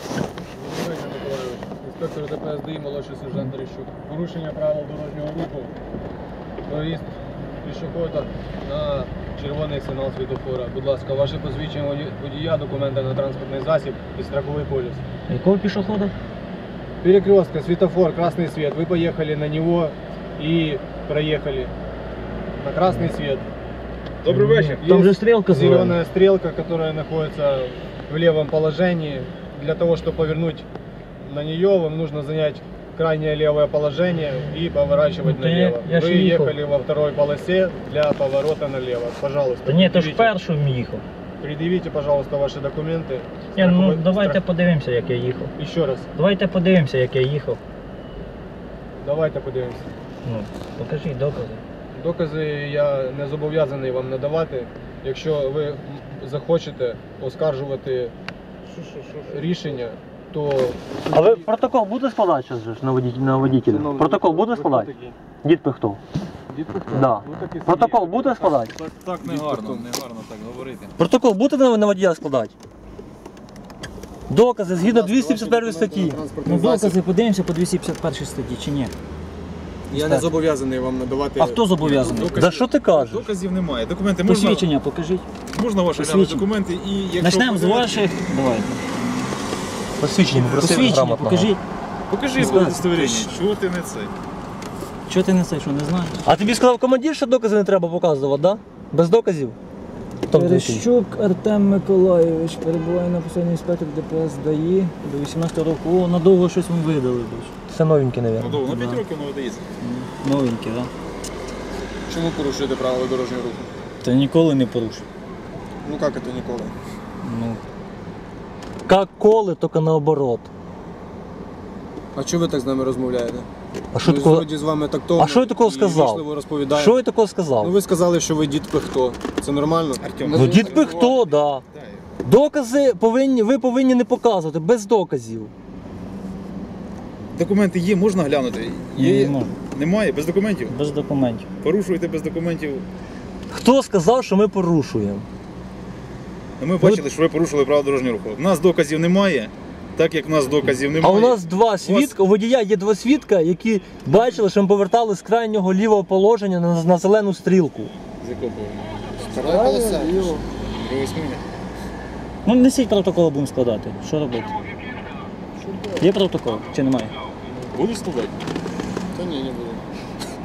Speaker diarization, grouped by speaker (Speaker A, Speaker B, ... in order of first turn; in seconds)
Speaker A: 0.5-5.8, 6.7-15.0, 17.0-21.7, 22.6-23.5, 24.8-30.7, 31.2-40.3, 41.4-44.4, 45.6-46.1, 49.0-49.9, 51.9-58.1, 59.3-61.5, 63.6-65.2, 66.5-68.7, 69.2-69.9, 74.8-77.0, 79.9-82.2, 112.1-113.7, 115.8-116.7, 122.2-123.5, 124.0-127.0, 127.6-131.2, 159.3-160.4, 165.6-166.0, 169.1-169.8
Speaker B: 15.3-16.1, 24.3-26.0, 35.2-36.5, 39.7-41.0, 43.6-45.5, 46.1-47.6, 50.2-51.6, 76.4-78.9, 79.9-80.3, 81.4-83.0, 84.2-85.2, 86.0-86.5, 87.2-88.8, 90.4-91.6, 92.4-93.3, 95.1-96.2, 100.3-107.5, 108.6-109.0, 109.8-110.9, 114.0-115.0, 117.2-117.6, 139.0-139.5, 140.7-141.5, 151.3-151.7, 152.2-152.5, 159.4-160.4, 162.5-164.7, 166.0-167.2
Speaker C: 24.2-24.8, 58.7-59.7, 68.7-71.0, 81.8-84.7, 85.5-88.1, 90.3-90.8, 92.1-94.1, 108.4-109.6, 130.0-131.2, 131.7-132.1, 137.3-140.8, 141.6-142.8, 146.6-152.2, 158.2-159.4, 160.6-161.4, 167.7-168.4
Speaker D: 61.1-64.9, 65.4-66.0, 66.9-68.7, 71.0-72.5, 74.3-76.2, 82.3-83.2, 90.0-91.5, 96.2-99.6, 100.3-100.9, 107.7-108.5, 118.9-120.5, 124.0-124.4, 125.2-126.2, 126.7-127.7, 130.3-131.4, 132.2-135.5, 143.5-145.2, 151.0-157.9